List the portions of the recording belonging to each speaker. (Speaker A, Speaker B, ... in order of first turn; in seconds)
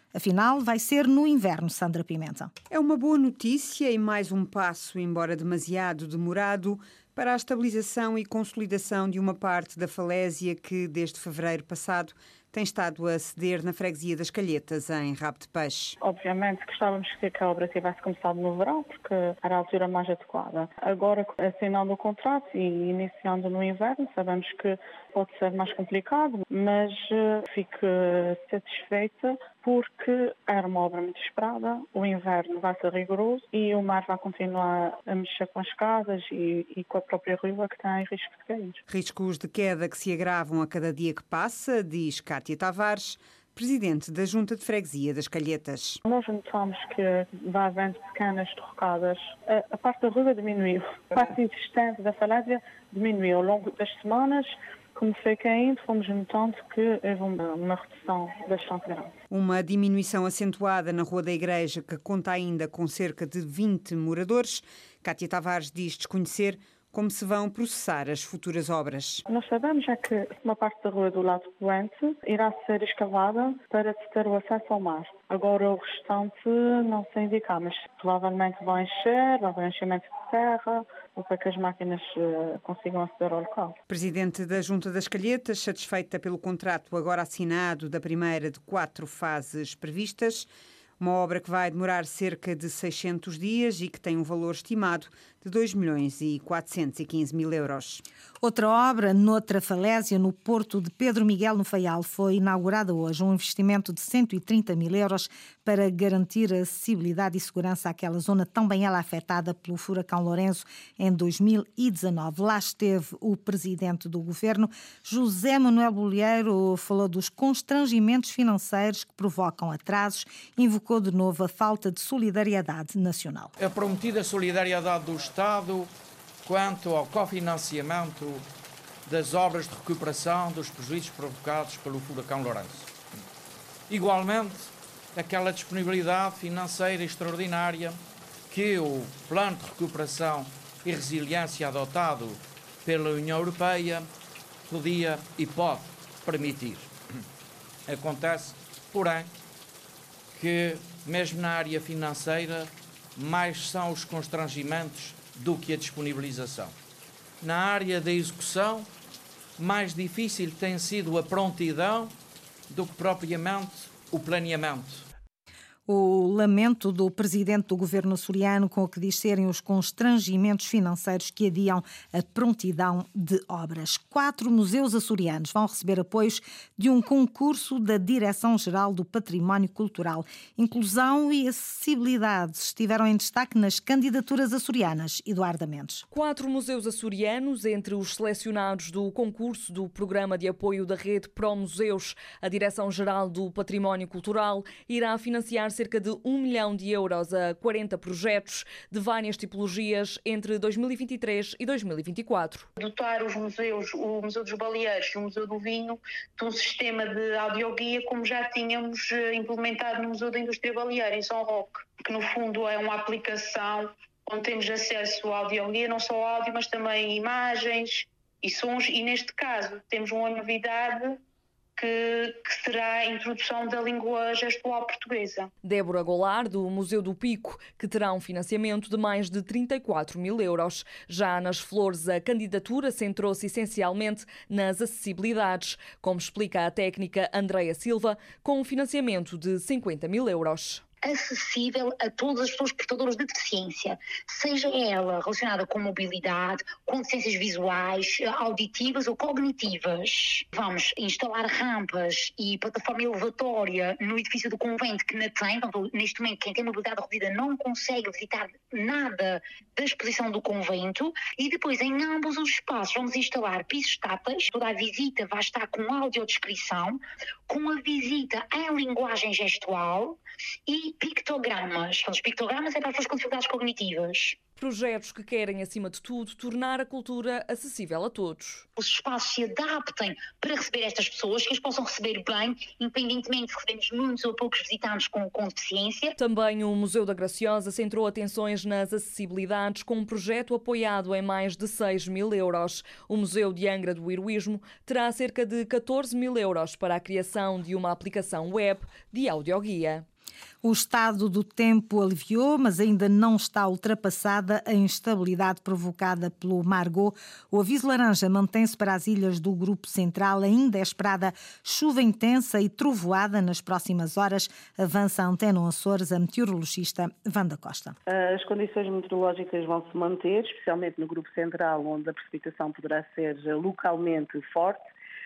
Speaker A: 0.1-2.5, 98.4-123.5, 165.9-186.1, 300.6-318.0
Speaker B: 2.7-16.0, 38.9-46.0, 59.3-69.2, 83.9-98.0
Speaker C: 16.0-38.8, 46.1-59.1, 69.3-83.8
Speaker D: 123.6-125.9, 126.5-128.4, 129.1-132.9, 133.9-138.0, 138.5-144.1, 144.7-146.9, 147.9-149.3, 150.4-156.7, 157.4-158.9, 159.6-162.1, 162.7-165.0
Speaker E: 186.1-202.7, 225.6-240.8, 274.6-278.7, 286.2-300.1
Speaker F: 202.8-221.1, 221.8-225.5
Speaker G: 241.0-274.4, 278.8-286.2
Speaker H: 318.1-324.8